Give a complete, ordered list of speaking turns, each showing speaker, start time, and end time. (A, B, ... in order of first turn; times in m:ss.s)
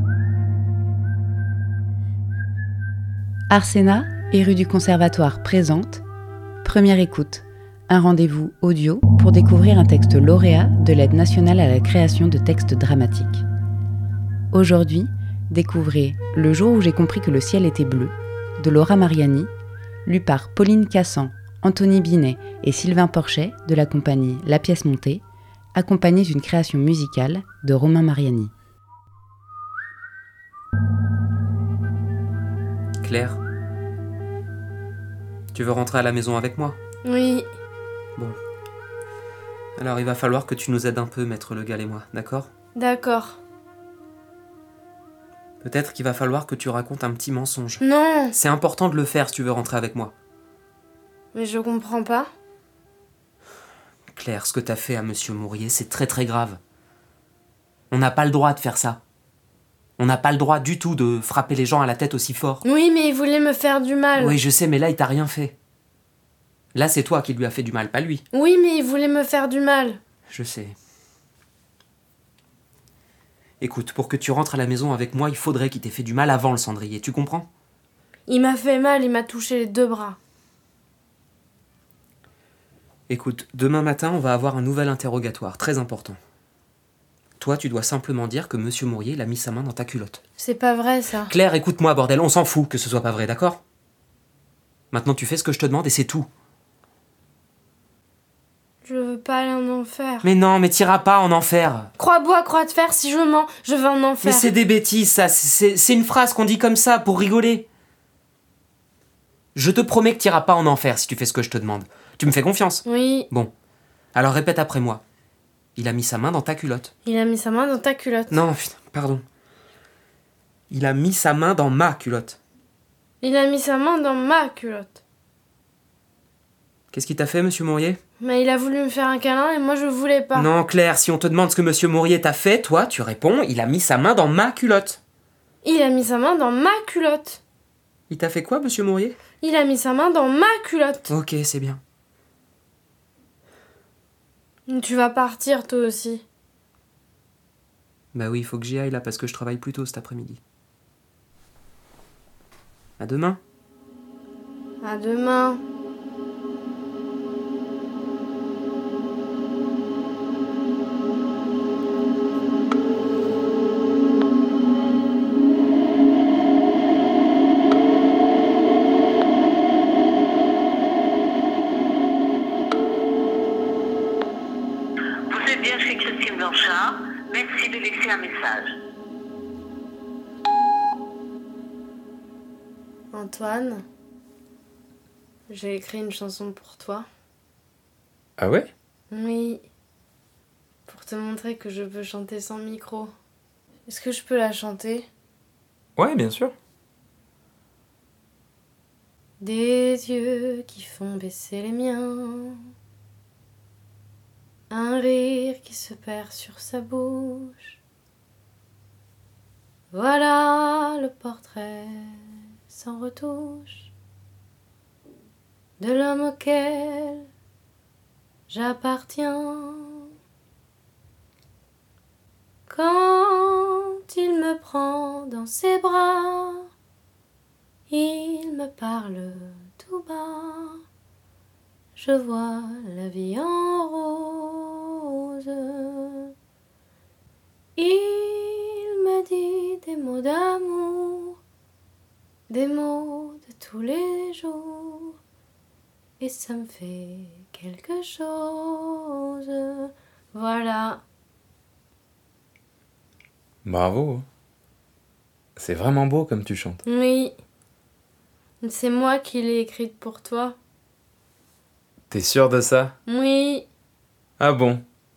0:03.5-0:06.0 A
0:06.6-0:13.4 A
0:14.5-0:19.5 A
0:20.0-0:25.2 A
0:25.7-0:28.5 A
0:33.0-0:33.4 B
0:35.5-0:36.8 B
0:37.0-0:37.5 C
0:39.8-0:42.5 B
0:42.7-0:43.4 C
0:45.6-0:50.1 B
0:47.8-0:48.4 C
0:51.3-0:52.3 C
0:54.1-0:56.6 B
0:57.9-0:59.0 B
1:00.0-1:02.6 B
1:02.6-1:04.4 C
1:04.2-1:05.5 B
1:06.7-1:08.2 B
1:08.3-1:10.0 C
1:10.3-1:10.7 B
1:13.6-1:17.5 B
1:18.3-1:20.2 C
1:23.1-1:26.2 B
1:27.4-1:30.2 B
1:30.4-1:31.3 C
1:31.3-1:33.6 B
1:34.9-1:36.3 B
1:38.8-1:40.2 C
1:40.2-1:41.9 B
1:42.0-1:44.5 C
1:44.2-1:47.6 B
1:49.5-1:53.5 B
1:52.8-1:53.3 C
1:54.1-1:55.0 B
1:55.8-1:56.9 B
1:57.0-1:58.4 C
1:58.3-1:59.2 B
2:00.7-2:02.4 B
2:03.2-2:05.0 C
2:06.9-2:08.0 B
2:08.2-2:10.5 C
2:10.3-2:15.0 B
2:15.6-2:17.4 C
2:18.1-2:19.2 B
2:19.4-2:21.1 C
2:21.1-2:21.8 B
2:24.7-2:26.2 C
2:28.1-2:30.4 B
2:33.0-2:33.4 B
2:34.8-2:35.6 C
2:55.3-2:58.7 D
3:03.1-3:03.8 C
3:05.5-3:07.0 C
3:08.4-3:08.7 E
3:09.1-3:09.6 C
3:10.9-3:13.1 C
3:13.9-3:15.1 C
3:16.0-3:16.5 E
3:19.4-3:22.6 C
3:24.7-3:27.8 C
3:29.9-3:33.9 C
3:35.8-3:37.3 C
3:38.5-3:40.1 C
3:42.7-3:46.7 C
3:47.9-3:50.8 C
3:52.0-3:56.3 C
3:57.8-4:01.4 C
4:02.5-4:05.2 C
4:06.2-4:11.0 C
4:13.6-4:14.2 E
4:15.6-4:16.8 E
4:16.8-4:17.3 C
4:18.6-4:20.6 C
4:22.1-4:22.9 E
4:23.0-4:23.6 C
4:24.4-4:24.8 E